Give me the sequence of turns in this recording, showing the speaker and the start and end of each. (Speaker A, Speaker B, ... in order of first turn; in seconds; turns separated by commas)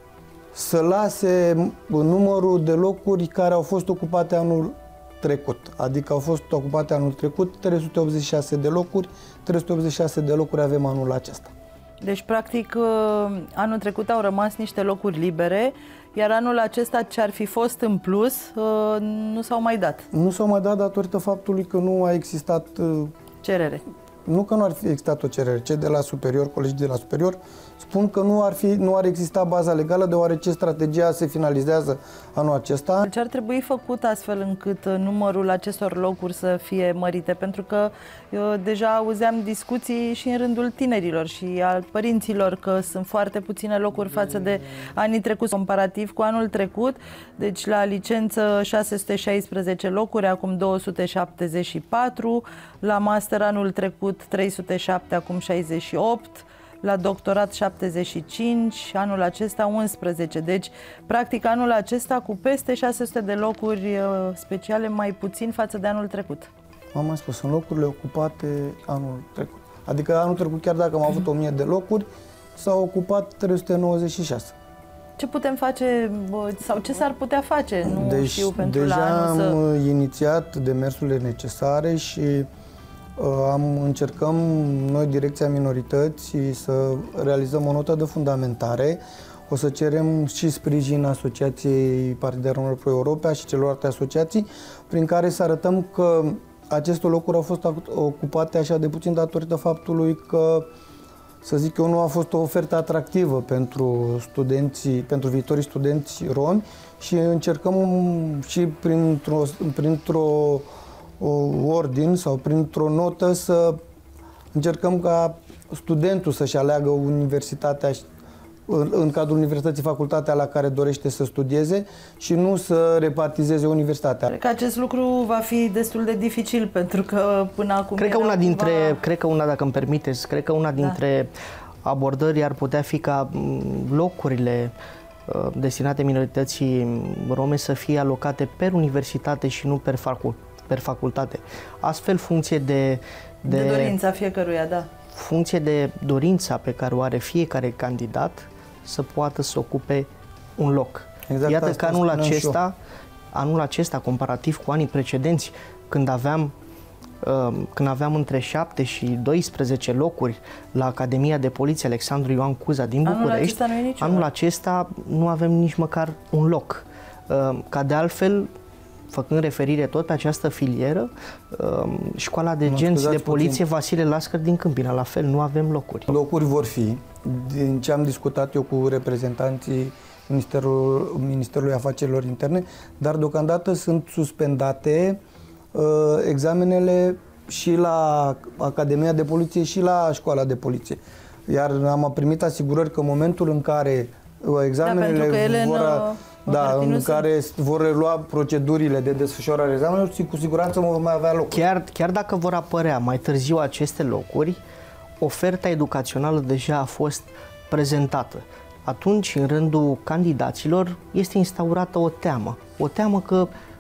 Speaker A: 0.5-11.5, Speaker B: 12.0-20.0, Speaker A: 20.1-23.1, Speaker B: 23.4-23.8, Speaker A: 24.3-33.1, Speaker B: 33.0-66.5, Speaker A: 66.9-74.5, Speaker B: 75.2-79.6, Speaker A: 77.9-82.5, Speaker A: 83.2-100.7, Speaker A: 101.4-113.8, Speaker A: 114.5-118.1, Speaker A: 118.7-124.3, Speaker B: 124.3-129.0, Speaker C: 128.0-131.3, Speaker C: 131.8-134.8, Speaker C: 135.3-144.0, Speaker B: 143.4-144.9, Speaker C: 145.1-152.8, Speaker A: 151.3-152.6, Speaker C: 153.3-156.5, Speaker C: 157.2-168.5, Speaker B: 163.1-164.3, Speaker C: 169.1-176.1, Speaker A: 172.7-173.6, Speaker A: 176.1-185.2, Speaker A: 185.7-201.6, Speaker B: 194.8-197.3, Speaker C: 201.5-204.6, Speaker C: 205.2-213.5